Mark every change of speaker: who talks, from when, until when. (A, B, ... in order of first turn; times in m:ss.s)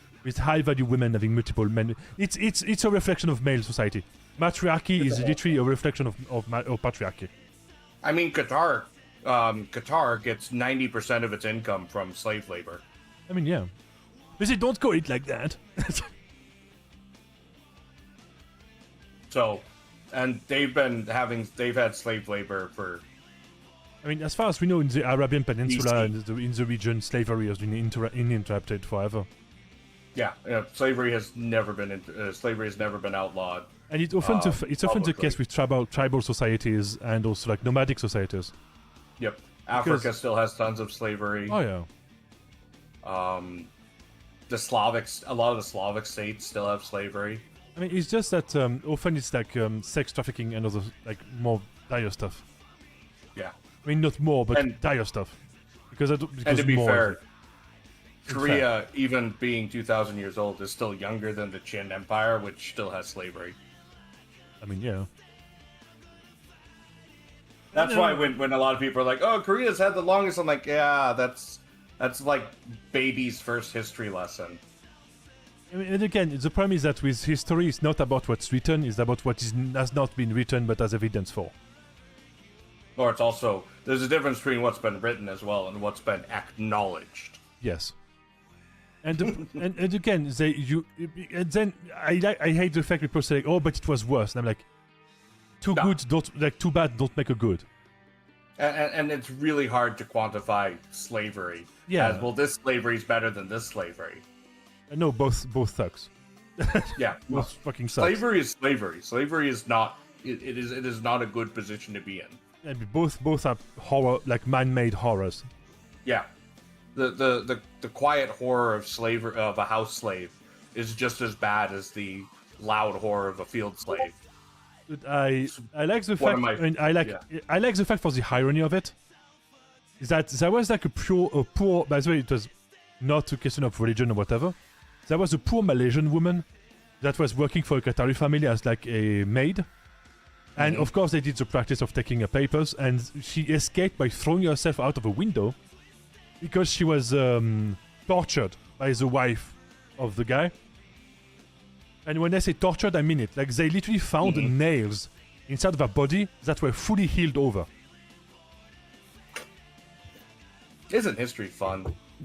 0:00.2-0:07.3 A
0:05.0-0:05.3 B
0:08.0-0:12.8 B
0:13.3-0:13.7 A
0:14.4-0:16.1 A
0:19.3-0:23.0 B
0:24.0-0:29.3 A
0:25.6-0:26.1 B
0:30.1-0:33.7 B
0:33.9-0:38.5 A
0:34.2-0:35.4 B
0:39.2-0:41.6 B
0:39.7-0:40.1 A
0:41.5-0:41.9 A
0:43.0-0:43.7 B
0:44.5-0:47.4 B
0:47.8-0:52.4 A
0:53.8-0:55.4 A
0:55.9-0:57.2 A
0:56.4-0:57.2 B
0:58.2-0:58.6 A
0:58.3-1:03.6 B
1:04.6-1:05.1 A
1:07.7-1:08.4 A
1:07.7-1:14.6 B
1:15.7-1:21.5 A
1:23.0-1:27.4 B
1:27.6-1:27.9 A
1:29.0-1:34.7 A
1:35.6-1:37.6 A
1:38.6-1:44.2 B
1:41.9-1:42.3 A
1:44.9-1:48.2 A
1:47.0-1:52.4 B
1:52.6-1:55.4 A
1:56.9-2:04.2 B
2:04.9-2:08.9 A
2:06.2-2:07.2 B
2:10.0-2:14.5 A
2:15.0-2:16.4 A
2:17.0-2:19.6 A
2:20.6-2:25.6 A
2:20.6-2:20.9 B
2:26.4-2:30.5 A
2:32.0-2:37.7 A
2:34.2-2:34.5 B
2:40.9-2:42.0 B